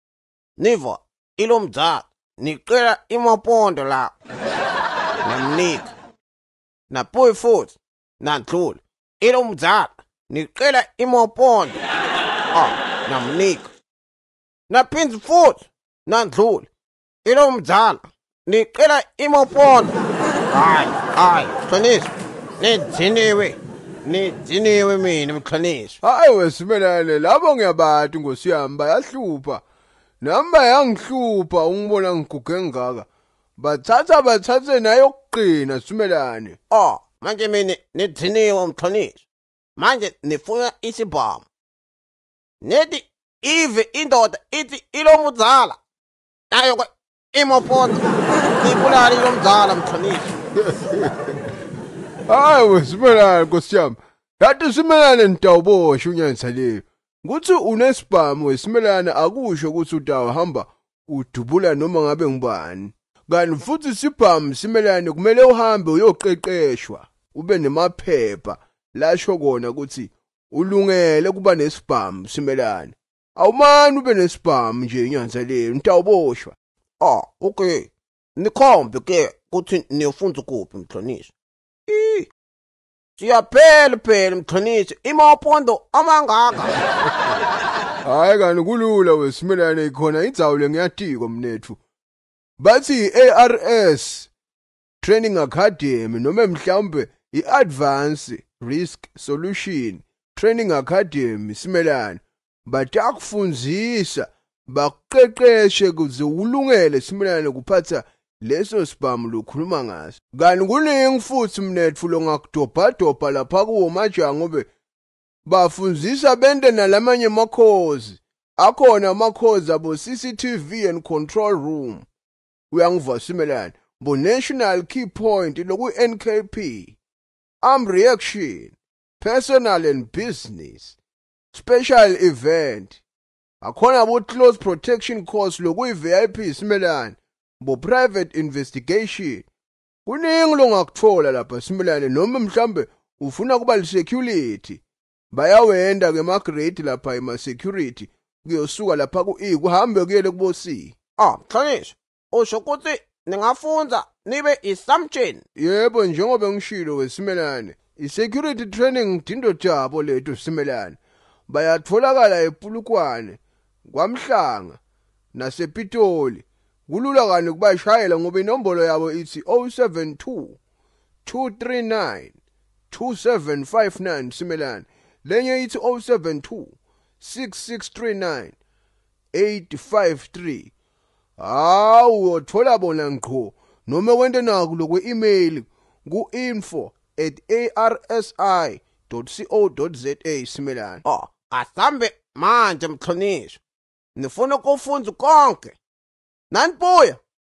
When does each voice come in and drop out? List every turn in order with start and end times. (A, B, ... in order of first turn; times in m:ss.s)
0:00.6-0:04.1 A
0:05.2-0:05.9 A
0:06.9-0:11.8 A
0:12.5-0:13.7 A
0:14.7-0:16.7 A
0:17.2-0:20.0 A
0:20.5-0:26.0 A
0:26.0-0:29.6 B
0:30.2-0:33.1 B
0:33.6-0:36.6 B
0:36.7-0:39.2 A
0:39.8-0:41.4 A
0:42.6-0:45.8 A
0:46.5-0:50.4 A
0:52.3-1:16.5 B
1:17.0-1:21.3 A
1:21.9-1:22.3 A
1:23.2-1:26.8 A
1:28.0-1:31.8 B
1:32.6-1:34.3 B
1:35.0-1:54.7 B
1:55.4-2:02.0 B
2:02.7-2:07.0 B
2:07.6-2:11.0 B
2:11.5-2:13.0 B
2:13.6-2:19.4 B
2:20.0-2:24.8 B
2:25.3-2:30.9 B
2:31.2-2:35.4 A
2:35.6-2:44.8 B
2:45.3-2:50.6 B
2:51.2-2:52.3 B
2:52.9-2:58.6 B
2:59.3-3:00.7 B
3:01.4-3:11.0 B
3:11.0-3:13.6 A
3:14.2-3:15.8 A
3:16.5-3:17.2 A